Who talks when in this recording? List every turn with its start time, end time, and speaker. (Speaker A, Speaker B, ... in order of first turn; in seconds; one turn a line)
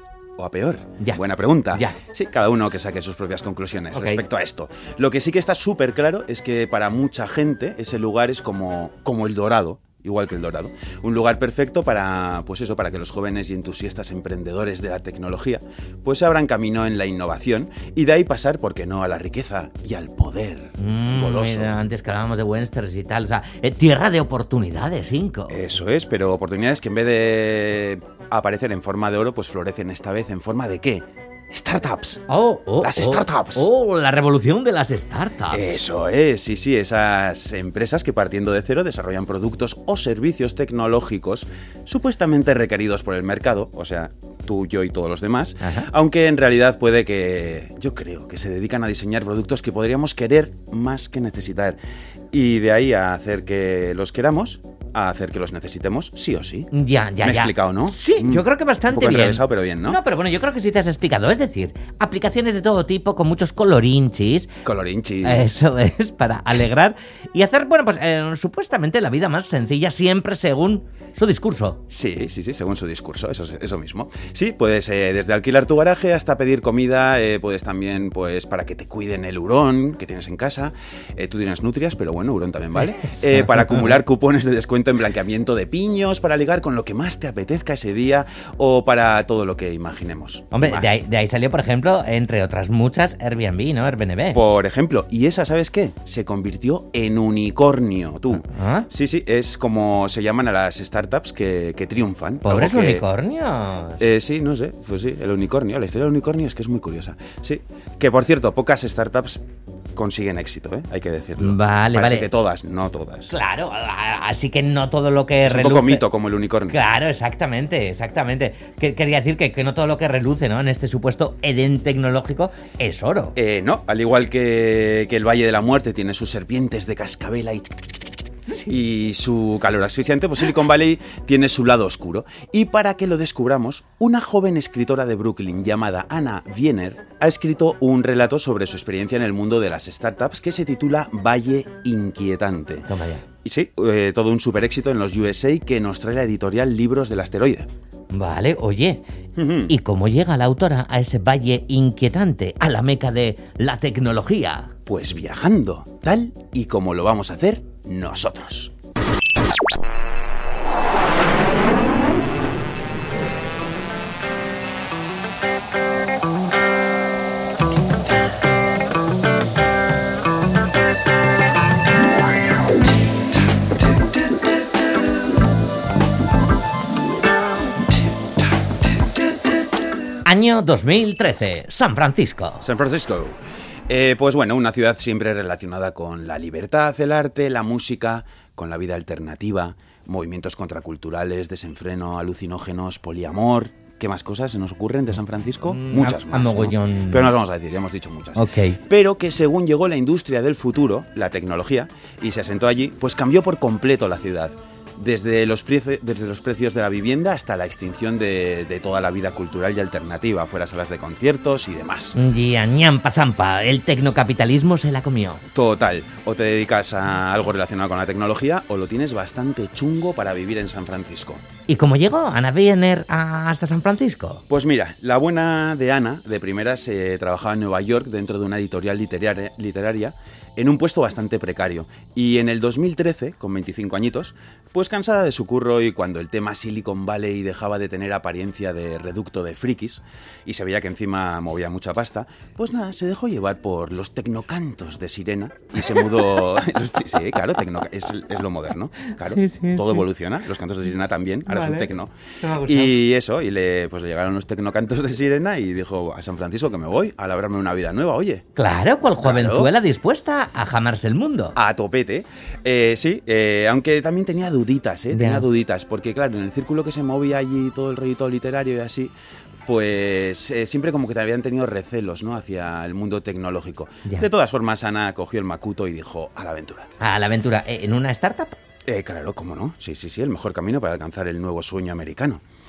Speaker A: 0.4-21.8
Speaker B: 1.0-2.0
Speaker B: 3.9-4.2
Speaker B: 20.8-25.6
Speaker A: 25.5-32.2
Speaker B: 32.3-35.8
Speaker A: 32.8-33.7
Speaker A: 35.5-51.8
Speaker B: 45.6-45.9
Speaker A: 52.3-56.7
Speaker B: 56.7-64.5
Speaker A: 57.2-60.0
Speaker A: 64.6-65.5
Speaker B: 65.2-71.8
Speaker A: 71.9-91.0
Speaker B: 82.8-84.0
Speaker B: 90.5-94.4
Speaker A: 94.3-103.0
Speaker B: 98.3-98.9
Speaker B: 102.4-104.0
Speaker A: 104.0-109.4
Speaker A: 109.9-113.3
Speaker B: 111.4-112.3
Speaker B: 113.3-116.0
Speaker A: 115.4-116.8
Speaker B: 116.7-123.3
Speaker A: 123.3-127.9
Speaker A: 128.7-142.9
Speaker B: 142.9-143.2
Speaker A: 143.4-147.7
Speaker B: 148.1-149.0
Speaker A: 149.3-149.7
Speaker B: 149.7-154.7
Speaker A: 154.8-158.7
Speaker B: 180.2-182.6
Speaker A: 182.6-212.1
Speaker B: 195.7-197.3
Speaker B: 198.3-198.8
Speaker B: 212.1-215.4
Speaker A: 215.5-221.4
Speaker B: 221.7-224.4
Speaker A: 224.5-258.4
Speaker B: 249.1-250.0
Speaker B: 251.5-251.9
Speaker B: 252.4-252.9
Speaker B: 258.5-261.6
Speaker A: 259.2-259.7
Speaker A: 261.6-269.1
Speaker B: 265.1-265.5
Speaker A: 269.6-276.9
Speaker B: 277.0-278.6
Speaker A: 278.9-282.4